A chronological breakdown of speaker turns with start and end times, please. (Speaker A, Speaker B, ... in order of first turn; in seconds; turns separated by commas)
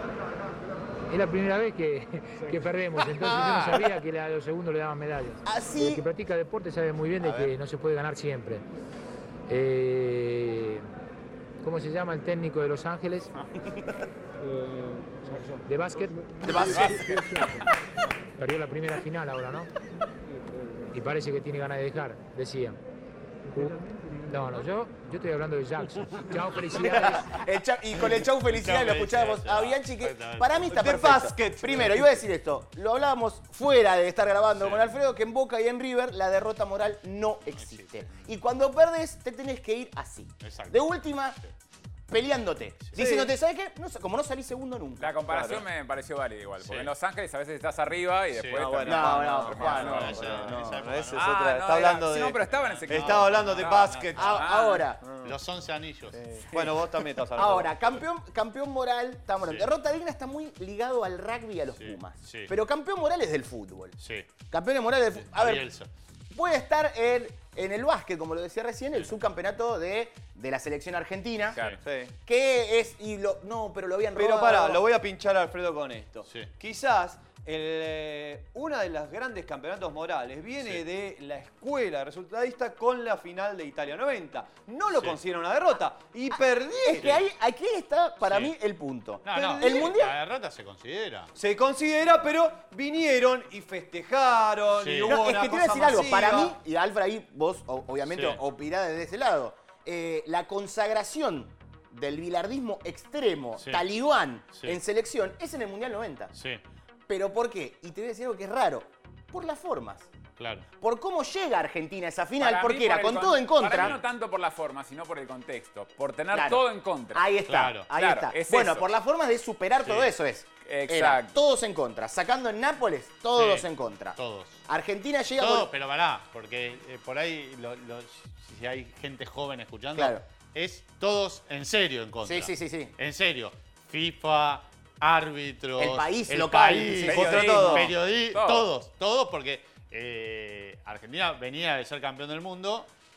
Speaker A: 1.1-8.6, Speaker B: 3.0-3.9, Speaker C: 5.4-6.1, Speaker C: 7.2-7.5, Speaker A: 9.5-10.9, Speaker A: 11.6-13.3, Speaker A: 14.7-17.7, Speaker C: 16.4-17.2, Speaker D: 16.6-17.4, Speaker A: 18.4-19.7, Speaker A: 20.9-22.8, Speaker A: 23.5-27.4, Speaker C: 26.9-41.4, Speaker B: 28.1-30.7, Speaker E: 30.7-32.2, Speaker B: 34.5-34.9, Speaker B: 37.6-38.3, Speaker B: 40.4-40.8, Speaker C: 42.1-45.1, Speaker E: 42.9-43.3, Speaker D: 45.0-50.5, Speaker E: 45.3-45.6, Speaker B: 48.3-48.8, Speaker E: 48.5-54.4, Speaker C: 48.9-50.8, Speaker B: 49.6-51.3, Speaker D: 51.1-54.8, Speaker B: 52.5-54.5, Speaker C: 54.1-55.0, Speaker E: 55.0-55.3, Speaker B: 55.2-56.4, Speaker E: 56.2-57.7, Speaker C: 57.4-64.0, Speaker B: 59.4-59.7, Speaker B: 61.8-62.5, Speaker B: 64.0-64.3, Speaker C: 64.5-65.7, Speaker B: 65.2-65.9, Speaker C: 66.3-71.6, Speaker D: 71.5-71.8, Speaker E: 71.8-72.1, Speaker C: 72.2-74.8, Speaker E: 74.2-87.2, Speaker C: 86.3-90.2, Speaker B: 87.0-87.2, Speaker B: 88.2-88.5, Speaker B: 89.2-91.3, Speaker E: 89.3-89.9, Speaker E: 91.4-96.5, Speaker B: 94.8-95.2, Speaker C: 95.1-106.3, Speaker B: 98.1-98.4, Speaker B: 103.6-103.8, Speaker B: 106.3-106.6, Speaker C: 107.1-110.1, Speaker B: 110.4-110.7, Speaker C: 110.8-113.9, Speaker D: 112.4-117.3, Speaker B: 113.7-114.0, Speaker C: 116.3-125.7, Speaker B: 117.5-117.9, Speaker D: 117.9-118.9, Speaker B: 119.8-120.2, Speaker D: 120.7-121.4, Speaker B: 123.4-124.6, Speaker B: 125.4-142.9, Speaker C: 129.9-130.2, Speaker C: 132.2-132.9, Speaker C: 135.8-137.6, Speaker D: 137.1-138.7, Speaker E: 137.1-137.9